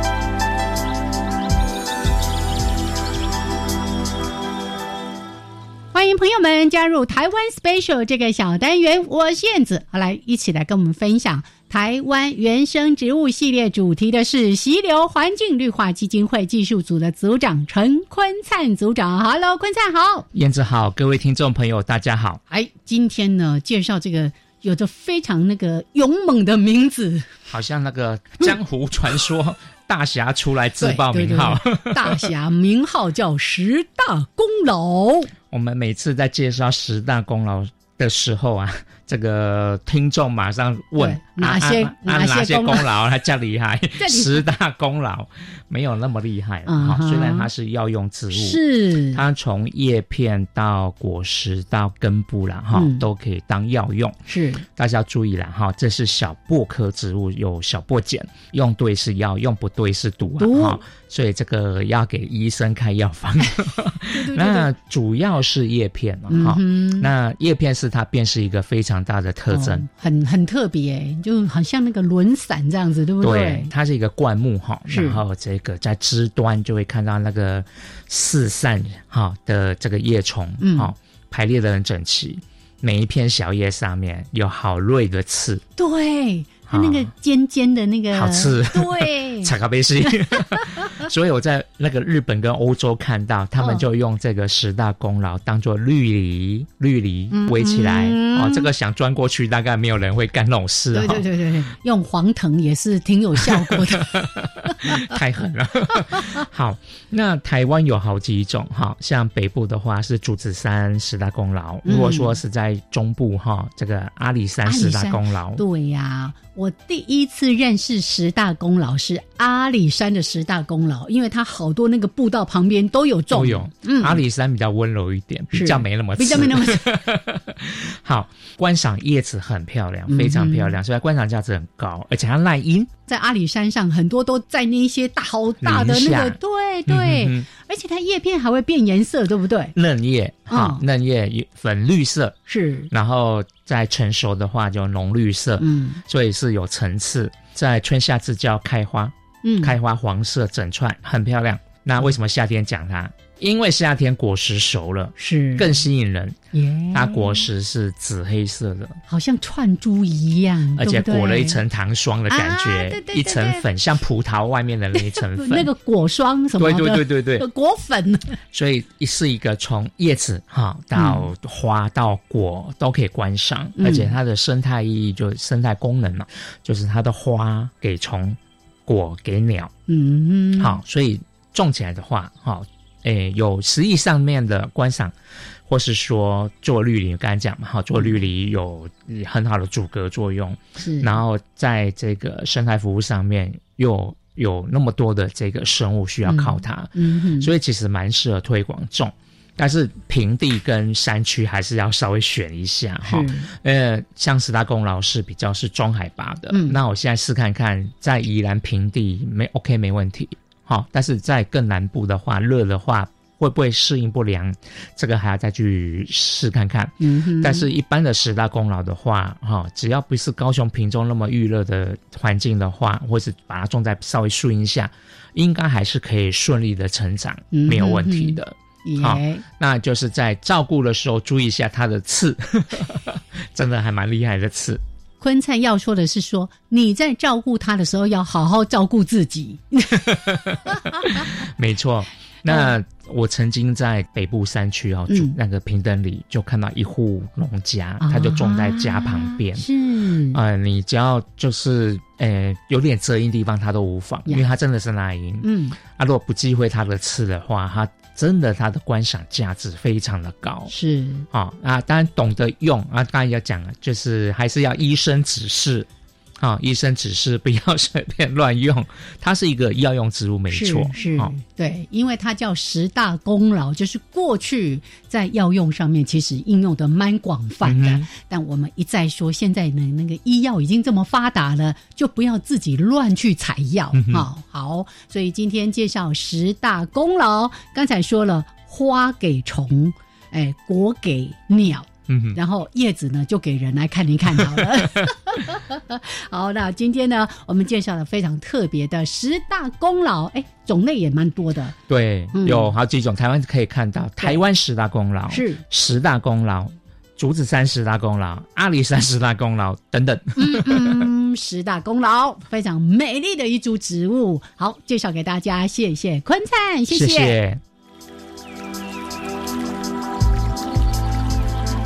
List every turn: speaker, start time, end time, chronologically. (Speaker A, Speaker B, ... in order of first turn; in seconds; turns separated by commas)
Speaker A: 5.9-20.3, Speaker B: 20.3-22.4, Speaker A: 22.5-27.3, Speaker B: 27.5-32.2, Speaker A: 30.8-35.3, Speaker B: 35.5-54.2, Speaker A: 41.0-42.9, Speaker A: 44.0-44.4, Speaker A: 46.7-47.5, Speaker A: 48.3-49.2, Speaker A: 52.7-53.0, Speaker A: 54.2-54.6, Speaker B: 54.7-69.9, Speaker A: 60.4-60.8, Speaker A: 64.1-64.7, Speaker A: 66.3-67.1, Speaker A: 69.5-73.7, Speaker B: 73.2-85.6, Speaker A: 74.9-75.2, Speaker A: 80.6-80.9, Speaker A: 85.8-89.5, Speaker B: 86.7-87.1, Speaker B: 88.1-101.2, Speaker A: 93.6-93.8, Speaker A: 97.3-98.7, Speaker A: 100.9-104.2, Speaker B: 103.5-115.6, Speaker A: 111.8-112.4, Speaker A: 114.7-124.2, Speaker B: 123.3-132.9, Speaker A: 125.5-126.8, Speaker A: 130.1-130.7, Speaker A: 133.1-139.7, Speaker B: 135.6-136.4, Speaker B: 136.9-137.5, Speaker B: 139.7-142.4, Speaker A: 140.5-140.8, Speaker A: 142.5-142.9, Speaker B: 142.9-156.4, Speaker A: 145.6-146.0, Speaker A: 149.4-149.7, Speaker A: 155.2-155.7, Speaker A: 156.5-157.4, Speaker B: 156.9-159.0, Speaker A: 159.1-161.6, Speaker B: 160.8-165.7, Speaker A: 162.3-163.7, Speaker A: 165.0-168.4, Speaker B: 166.6-167.4, Speaker B: 168.5-179.7, Speaker A: 170.9-171.3, Speaker A: 173.8-174.1, Speaker A: 179.9-180.8, Speaker B: 180.6-185.1, Speaker B: 185.7-234.8, Speaker A: 190.8-191.1, Speaker A: 196.2-197.5, Speaker A: 203.0-203.5, Speaker A: 206.5-206.8, Speaker A: 217.0-217.7, Speaker A: 227.5-229.4, Speaker A: 235.2-240.0, Speaker B: 240.0-249.6, Speaker A: 240.7-241.3, Speaker A: 242.5-242.7, Speaker A: 245.1-245.3, Speaker A: 248.0-250.4, Speaker B: 250.3-260.7, Speaker A: 255.4-255.8, Speaker A: 260.7-261.2, Speaker B: 261.3-265.9, Speaker B: 266.4-271.3, Speaker A: 270.5-301.8, Speaker B: 277.6-278.1, Speaker B: 283.9-284.2, Speaker B: 292.1-292.4, Speaker B: 301.9-310.7, Speaker A: 302.3-302.7, Speaker A: 305.3-305.6, Speaker A: 310.4-317.4, Speaker B: 316.9-317.6